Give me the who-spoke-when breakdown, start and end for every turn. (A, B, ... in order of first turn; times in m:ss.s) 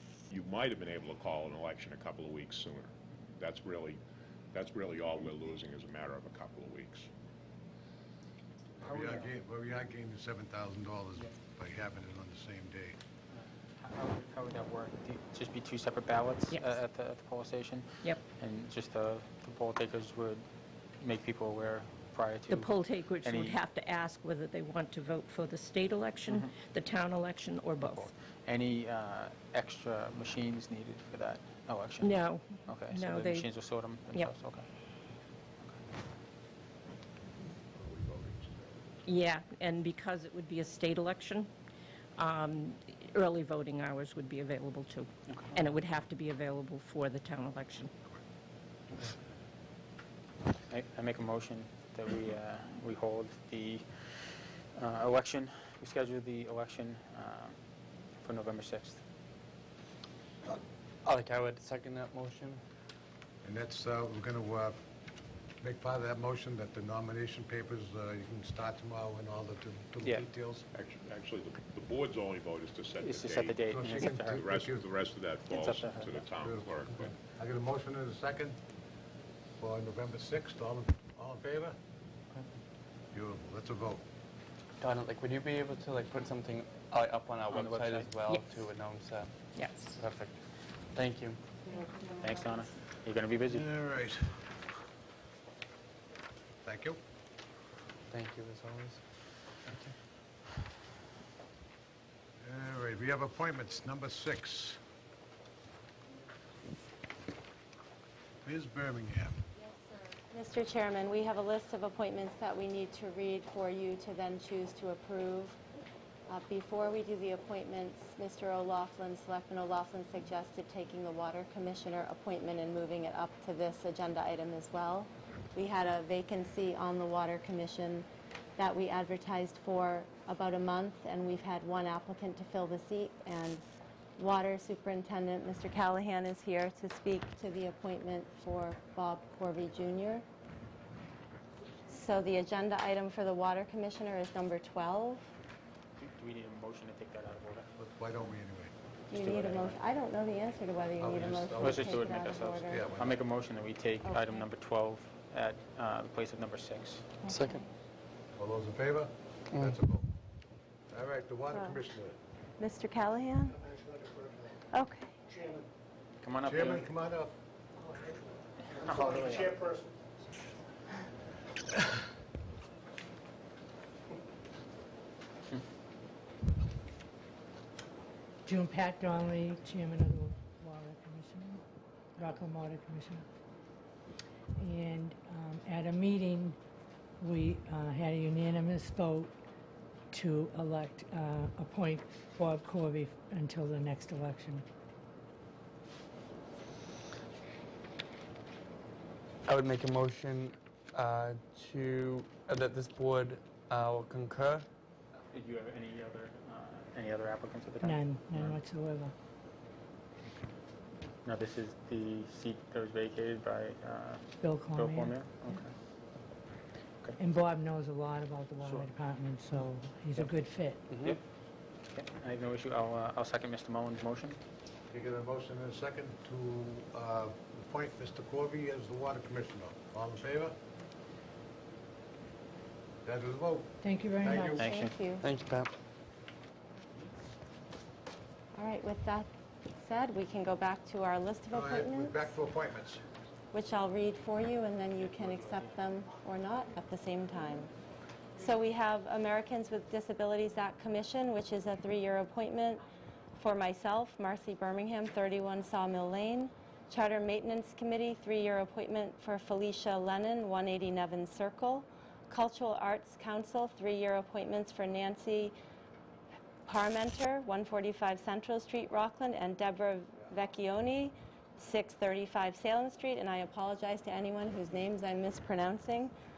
0:00.3-0:04.0 A
0:04.5-0:07.1 A
0:08.8-0:13.0 B
0:08.8-0:09.3 C
0:13.3-0:20.5 C
0:21.0-0:23.6 C
0:22.5-0:28.1 D
0:26.3-0:26.6 C
0:27.8-0:34.7 C
0:32.0-0:33.5 D
0:37.7-0:39.1 A
0:39.1-0:41.5 D
0:42.2-0:47.9 D
0:45.3-0:45.6 C
0:50.7-0:57.6 C
0:58.2-0:59.0 C
1:00.5-1:02.6 E
1:03.4-1:04.8 B
1:05.6-1:10.7 B
1:10.7-1:13.6 A
1:13.0-1:14.5 C
1:13.7-1:14.9 B
1:14.3-1:17.1 A
1:15.5-1:16.3 C
1:16.4-1:18.6 B
1:19.6-1:21.8 B
1:23.1-1:24.0 B
1:24.8-1:30.4 E
1:27.5-1:28.2 C
1:28.3-1:28.6 D
1:29.5-1:30.0 D
1:30.9-1:31.4 E
1:32.0-1:33.7 C
1:33.5-1:34.5 B
1:36.6-1:37.0 B
1:38.1-1:39.0 E
1:42.4-1:44.8 B
1:48.4-1:49.4 B
1:50.3-1:55.6 F
1:56.3-2:13.6 F
2:14.2-2:20.2 F
2:21.9-2:25.3 F
2:26.0-2:27.7 C
2:27.8-2:28.7 B
2:29.1-2:32.8 F
2:29.1-2:29.8 C
2:31.0-2:32.0 B
2:31.6-2:37.1 C
2:32.7-2:33.2 B
2:34.0-2:34.5 F
2:37.2-2:37.6 F
2:37.3-2:37.6 E
2:38.4-2:40.1 B
2:40.9-2:42.2 B
2:41.5-2:41.8 F
2:42.6-2:43.6 F
2:44.7-2:45.2 F
2:46.2-2:46.9 C
2:46.4-2:47.3 B
2:48.8-2:49.6 C
2:58.5-3:01.6 G
3:02.2-3:03.2 G
3:04.6-3:06.6 G
3:07.2-3:09.3 G
3:10.1-3:14.6 G
3:19.5-3:24.7 E
3:25.3-3:28.6 C
3:27.8-3:29.1 G
3:31.2-3:35.7 C
3:34.4-3:35.2 G
3:37.2-3:40.8 G
3:38.6-3:39.0 C
3:40.9-3:41.2 E
3:41.9-3:44.4 C
3:44.9-3:50.6 B
3:53.0-3:54.6 B
3:53.8-3:54.7 G
3:54.4-3:55.3 F
3:54.6-3:55.0 C
3:55.2-3:55.7 E
3:58.5-4:02.3 F
4:01.5-4:03.0 B
4:03.5-4:07.7 F
4:05.0-4:05.7 C
4:08.4-4:12.8 F
4:13.4-4:25.6 F
4:26.7-4:36.1 F